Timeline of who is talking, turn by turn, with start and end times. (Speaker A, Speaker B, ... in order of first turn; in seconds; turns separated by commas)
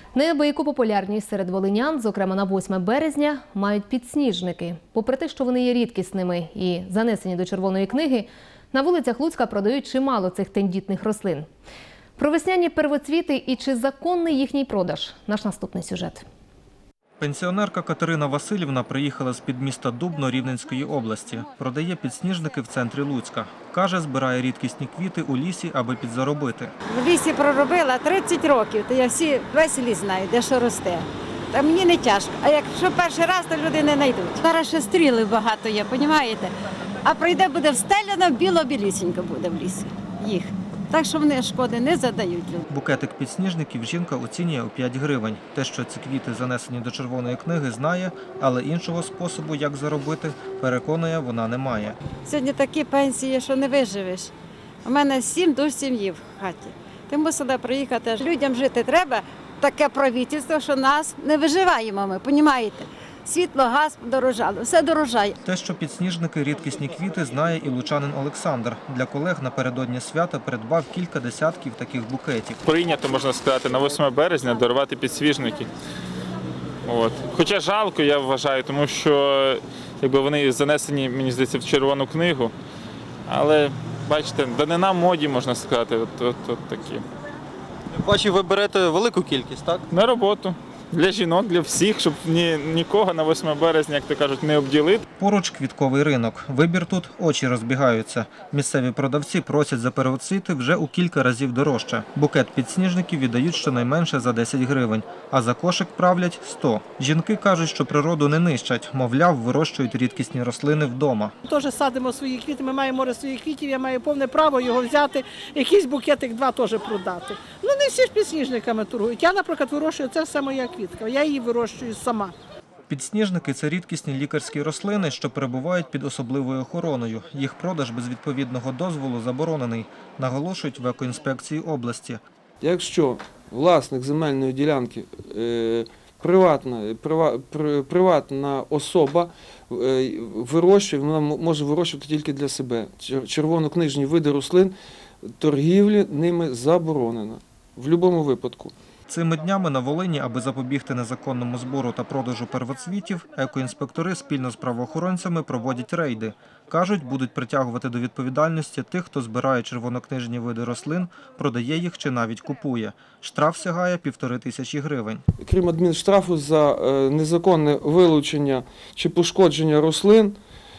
Speaker A: 0.1-11.5, Speaker A: 12.2-16.2, Speaker B: 17.2-26.7, Speaker C: 26.9-42.6, Speaker B: 42.7-52.0, Speaker C: 52.2-54.3, Speaker C: 54.8-65.4, Speaker B: 65.4-72.6, Speaker D: 72.6-75.7, Speaker D: 76.8-82.5, Speaker D: 83.3-87.0, Speaker B: 87.9-89.8, Speaker D: 89.9-95.0, Speaker B: 95.2-111.3, Speaker E: 111.5-122.3, Speaker B: 122.9-132.2, Speaker F: 132.6-148.7, Speaker B: 149.1-165.2, Speaker F: 165.4-170.4